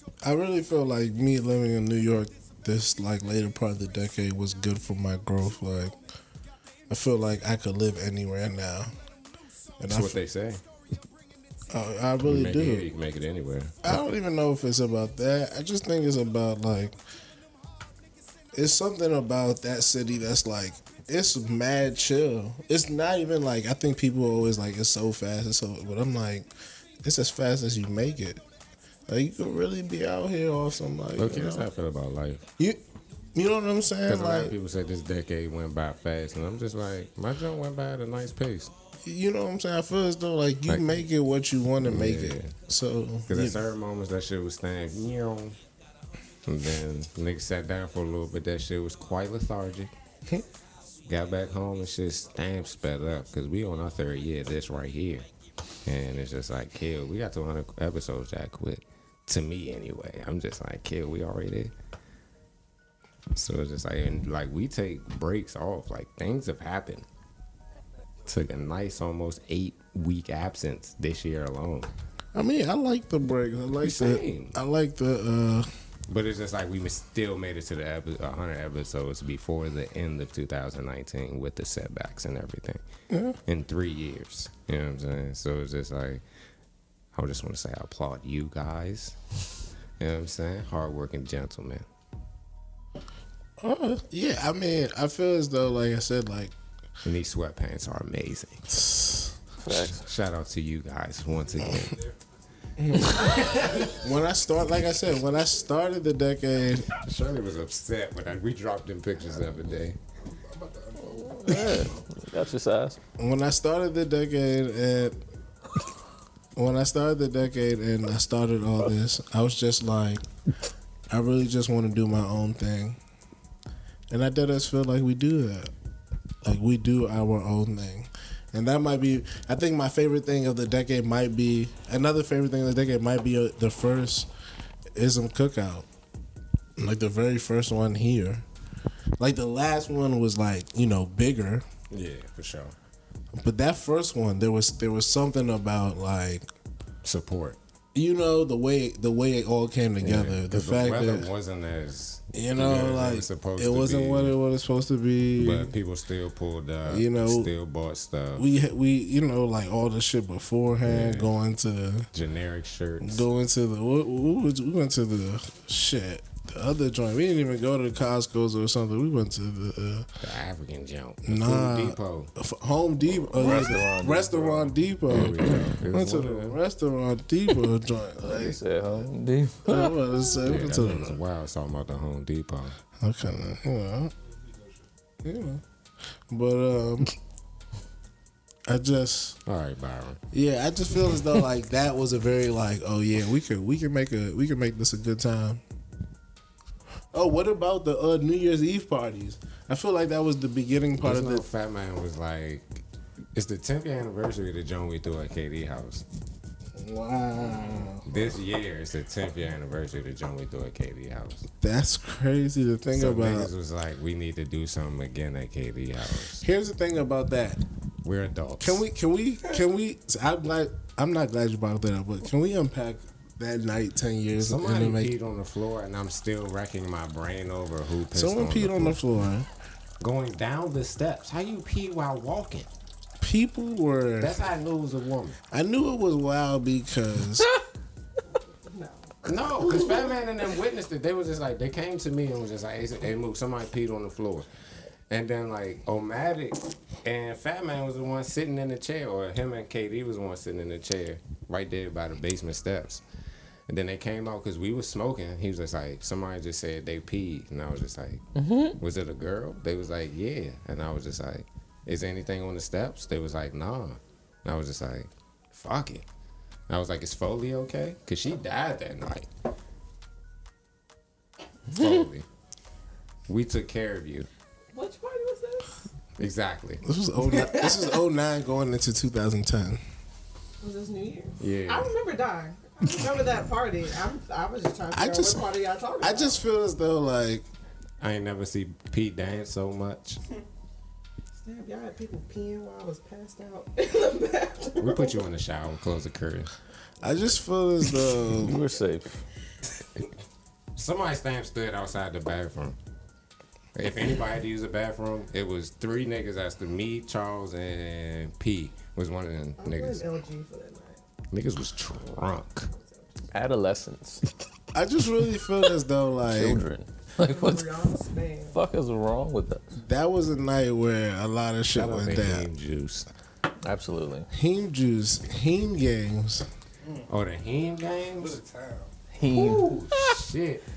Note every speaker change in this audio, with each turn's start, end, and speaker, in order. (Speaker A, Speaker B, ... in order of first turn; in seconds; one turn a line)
Speaker A: 0.2-6.0
Speaker A: 6.9-8.9
Speaker A: 9.8-10.2
Speaker B: 9.9-10.6
Speaker A: 11.7-12.9
Speaker B: 12.2-13.8
Speaker A: 13.8-17.0
Speaker A: 18.5-26.5
Speaker A: 27.0-28.4
Speaker A: 29.1-31.7
Speaker B: 31.2-32.5
Speaker A: 33.4-34.5
Speaker B: 34.1-38.7
Speaker A: 39.0-43.6
Speaker B: 40.7-41.0
Speaker B: 41.8-42.6
Speaker B: 43.3-45.6
Speaker B: 46.5-49.9
Speaker B: 51.1-55.3
Speaker B: 55.9-61.7
Speaker B: 63.4-67.1
Speaker B: 68.3-71.9
Speaker A: 72.3-75.7
Speaker B: 73.8-74.6
Speaker B: 76.1-82.8
Speaker A: 83.1-83.4
Speaker B: 83.5-86.2
Speaker B: 87.1-89.2
Speaker B: 90.0-91.9
Speaker A: 93.6-96.5
Speaker B: 97.0-98.8
Speaker A: 98.8-99.3
Speaker C: 99.6-100.0
Speaker B: 99.7-102.0
Speaker D: 101.9-102.2
Speaker A: 102.8-103.3
Speaker D: 102.9-104.1
Speaker B: 103.0-103.9
Speaker A: 103.9-106.9
Speaker B: 107.0-110.0
Speaker D: 109.2-112.0
Speaker C: 111.0-113.0
Speaker A: 113.2-115.2
Speaker A: 116.6-120.2
Speaker A: 121.1-123.0
Speaker A: 124.1-125.7
Speaker A: 126.4-134.3
Speaker A: 134.9-135.9
Speaker A: 136.8-138.4
Speaker A: 139.2-141.7
Speaker B: 141.9-142.8
Speaker A: 143.3-146.5
Speaker B: 147.0-147.6
Speaker A: 147.9-151.3
Speaker B: 150.0-154.4
Speaker A: 152.3-155.7
Speaker B: 155.4-158.5
Speaker A: 156.9-157.5
Speaker A: 158.4-162.1
Speaker B: 160.9-161.3
Speaker B: 162.1-163.2
Speaker A: 163.0-170.1
Speaker B: 170.2-172.3
Speaker A: 171.2-178.6
Speaker C: 173.3-174.5
Speaker B: 173.3-176.6
Speaker C: 178.2-180.3
Speaker A: 179.7-181.2
Speaker B: 180.4-182.8
Speaker A: 183.0-184.1
Speaker A: 185.2-185.6
Speaker A: 186.3-187.1
Speaker A: 188.7-189.4
Speaker B: 189.5-190.2
Speaker A: 190.3-195.6
Speaker A: 197.1-201.4
Speaker B: 201.0-202.8
Speaker B: 203.3-206.1
Speaker A: 206.8-208.3
Speaker B: 208.1-211.5
Speaker A: 211.6-213.5
Speaker B: 212.9-216.4
Speaker A: 216.4-217.6
Speaker B: 218.0-218.8
Speaker A: 218.6-225.1
Speaker B: 224.4-229.0
Speaker A: 228.1-229.5
Speaker B: 230.0-232.7
Speaker A: 233.2-234.3
Speaker B: 234.2-235.4
Speaker A: 235.5-237.5
Speaker E: 238.6-239.1
Speaker B: 239.2-244.5
Speaker E: 239.8-240.1
Speaker B: 245.1-253.0
Speaker B: 253.7-258.2
Speaker C: 258.4-258.8
Speaker B: 258.8-266.1
Speaker B: 266.7-269.3
Speaker B: 271.7-272.3
Speaker B: 273.3-274.3
Speaker E: 274.7-275.7
Speaker B: 276.2-276.8
Speaker A: 276.8-279.8
Speaker E: 277.2-277.9
Speaker E: 280.6-286.4
Speaker B: 281.4-281.9
Speaker A: 284.9-287.5
Speaker B: 288.0-290.2
Speaker E: 291.4-295.2
Speaker B: 294.8-296.5
Speaker A: 297.0-298.6
Speaker C: 298.3-299.2
Speaker B: 300.8-302.8
Speaker B: 303.8-310.0
Speaker E: 309.6-311.0
Speaker B: 311.3-312.7
Speaker E: 312.7-313.3
Speaker C: 313.3-314.3
Speaker A: 314.7-316.6
Speaker C: 316.3-317.7
Speaker E: 317.2-318.6
Speaker C: 318.5-319.6
Speaker A: 319.8-322.5
Speaker B: 321.7-323.1
Speaker C: 323.6-324.3
Speaker A: 324.3-326.5
Speaker D: 326.8-327.1
Speaker B: 327.1-328.4
Speaker D: 328.2-328.9
Speaker C: 329.1-330.2
Speaker B: 329.3-330.6